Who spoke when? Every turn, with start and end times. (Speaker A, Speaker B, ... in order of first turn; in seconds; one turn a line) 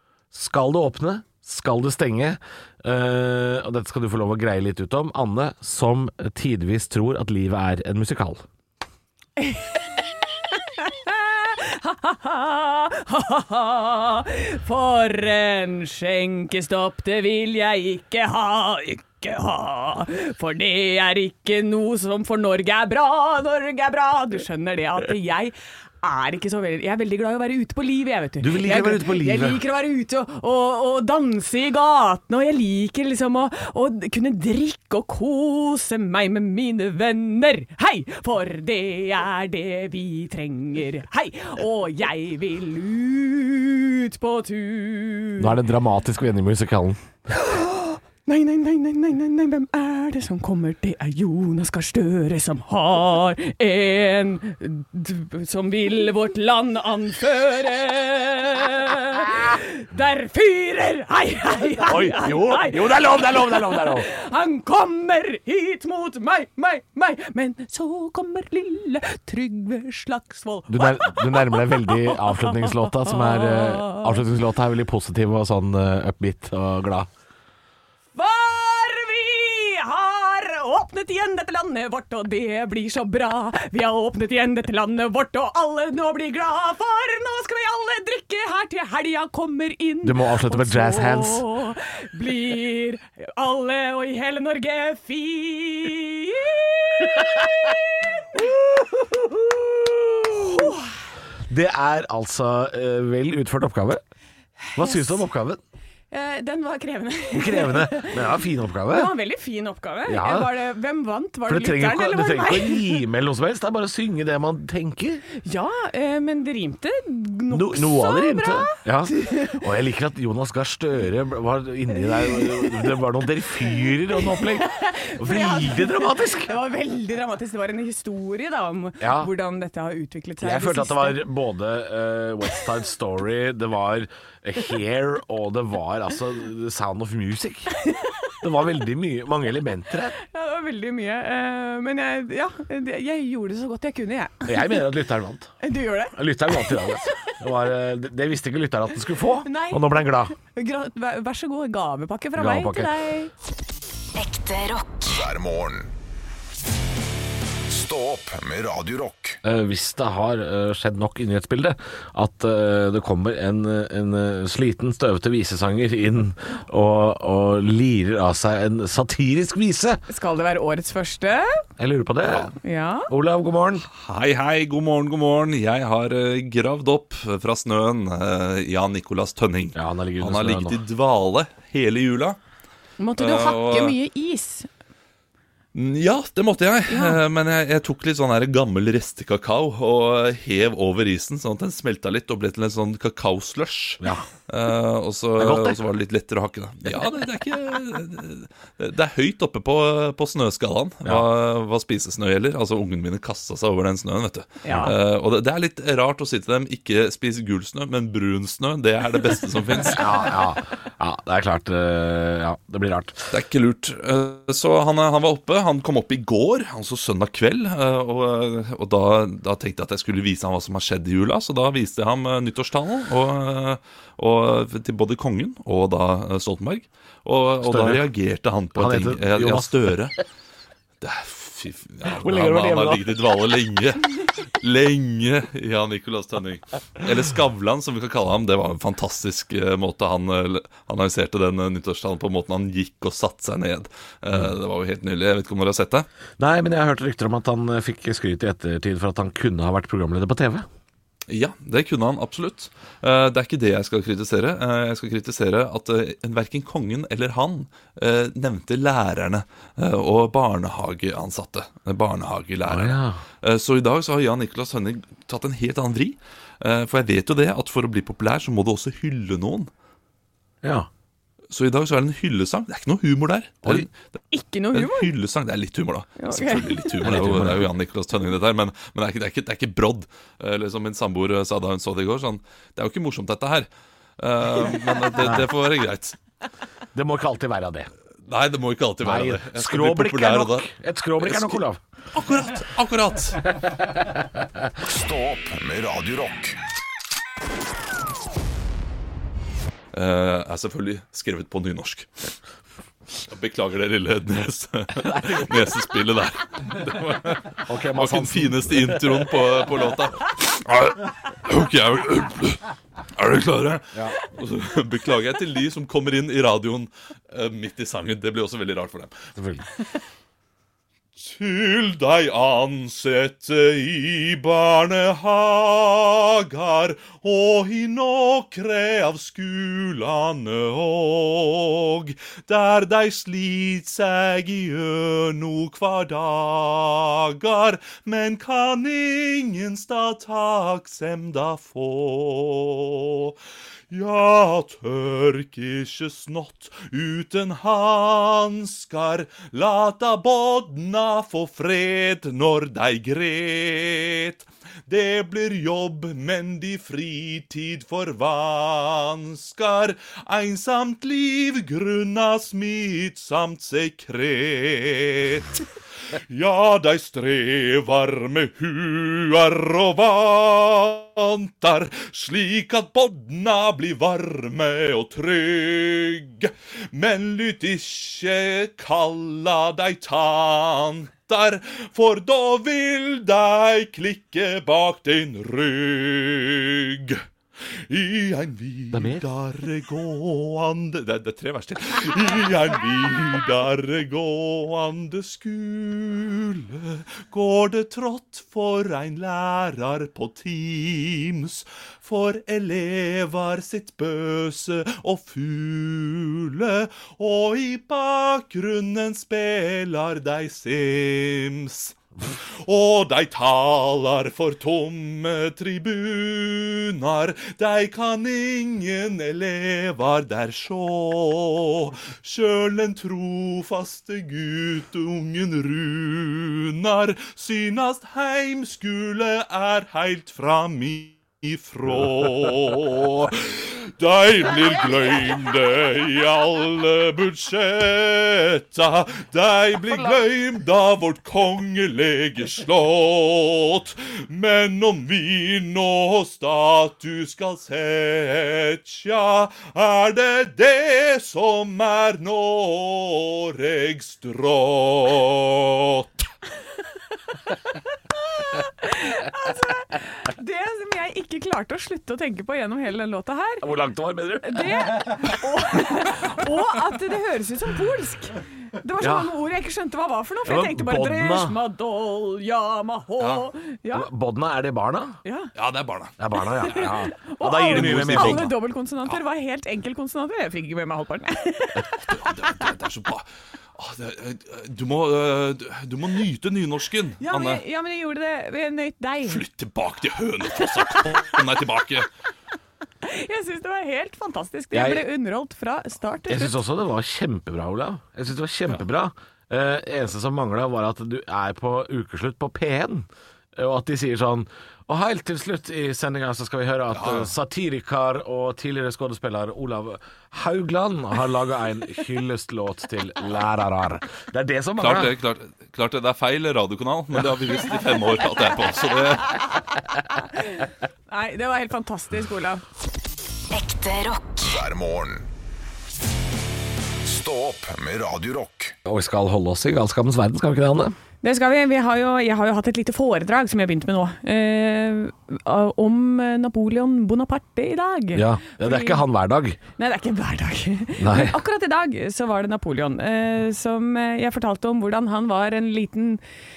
Speaker A: 0.3-8.4
Speaker B: 9.4-9.8
Speaker B: 10.5-45.5
Speaker A: 28.4-29.6
Speaker A: 45.4-47.0
Speaker B: 47.3-74.2
Speaker A: 61.8-64.1
Speaker A: 70.7-77.1
Speaker B: 78.1-97.8
Speaker A: 90.0-91.5
Speaker A: 98.3-100.7
Speaker B: 100.3-100.9
Speaker A: 101.5-104.0
Speaker B: 104.6-105.2
Speaker A: 104.7-105.6
Speaker B: 106.1-113.0
Speaker A: 107.3-109.1
Speaker A: 110.1-110.5
Speaker A: 111.5-115.2
Speaker B: 115.3-119.6
Speaker A: 117.5-126.5
Speaker B: 122.0-122.9
Speaker B: 124.1-131.2
Speaker A: 129.0-129.3
Speaker A: 130.4-137.7
Speaker B: 137.7-138.3
Speaker A: 138.4-140.2
Speaker B: 140.2-144.8
Speaker A: 144.4-145.5
Speaker B: 145.6-147.3
Speaker A: 146.1-150.3
Speaker B: 149.4-153.3
Speaker A: 152.3-152.9
Speaker C: 154.1-155.9
Speaker C: 157.7-159.4
Speaker A: 159.4-170.0
Speaker B: 170.1-171.6
Speaker A: 171.8-172.5
Speaker B: 172.6-173.1
Speaker A: 173.1-173.8
Speaker D: 173.9-182.4
Speaker A: 179.7-180.8
Speaker B: 183.0-184.7
Speaker D: 183.2-183.9
Speaker D: 185.7-210.2
Speaker B: 186.9-187.2
Speaker A: 195.4-195.8
Speaker B: 204.6-204.9
Speaker A: 209.8-213.3
Speaker D: 213.3-230.1
Speaker A: 227.6-228.0
Speaker A: 228.7-229.9
Speaker D: 231.0-246.1
Speaker A: 232.0-233.0
Speaker A: 246.4-250.6
Speaker D: 251.3-269.7
Speaker A: 262.7-263.2
Speaker A: 270.6-270.9
Speaker D: 271.5-273.9
Speaker B: 274.3-275.1
Speaker D: 274.7-283.7
Speaker B: 276.2-276.9
Speaker A: 277.0-277.7
Speaker D: 284.2-286.2
Speaker A: 285.2-285.5
Speaker A: 286.9-287.9
Speaker D: 288.3-290.7
Speaker A: 289.0-291.8
Speaker D: 291.2-293.8
Speaker C: 294.8-296.6
Speaker D: 299.9-302.3
Speaker D: 303.1-312.6
Speaker A: 305.0-305.7
Speaker A: 307.6-309.4
Speaker D: 313.2-319.2
Speaker A: 319.4-319.6
Speaker D: 321.1-343.4
Speaker D: 343.9-365.6
Speaker D: 366.1-387.2
Speaker D: 387.9-456.1
Speaker A: 388.9-389.2
Speaker B: 457.7-463.7
Speaker A: 463.6-465.3
Speaker B: 464.4-474.1
Speaker A: 469.0-469.4
Speaker A: 470.4-471.6
Speaker D: 473.2-473.5
Speaker A: 473.9-475.2
Speaker B: 475.2-475.5
Speaker D: 475.6-476.1
Speaker A: 476.2-478.5
Speaker B: 476.4-482.3
Speaker D: 477.7-478.5
Speaker D: 482.1-487.6
Speaker B: 487.2-489.4
Speaker D: 489.2-492.1
Speaker B: 490.6-491.1
Speaker B: 493.0-496.6
Speaker A: 494.7-495.1
Speaker A: 496.3-515.1
Speaker D: 506.9-507.3
Speaker D: 514.8-519.6
Speaker B: 519.0-522.6
Speaker C: 523.5-525.3
Speaker C: 527.0-528.8
Speaker A: 528.8-530.9
Speaker B: 531.2-539.0
Speaker A: 538.1-539.6
Speaker B: 539.8-546.2
Speaker A: 541.0-541.4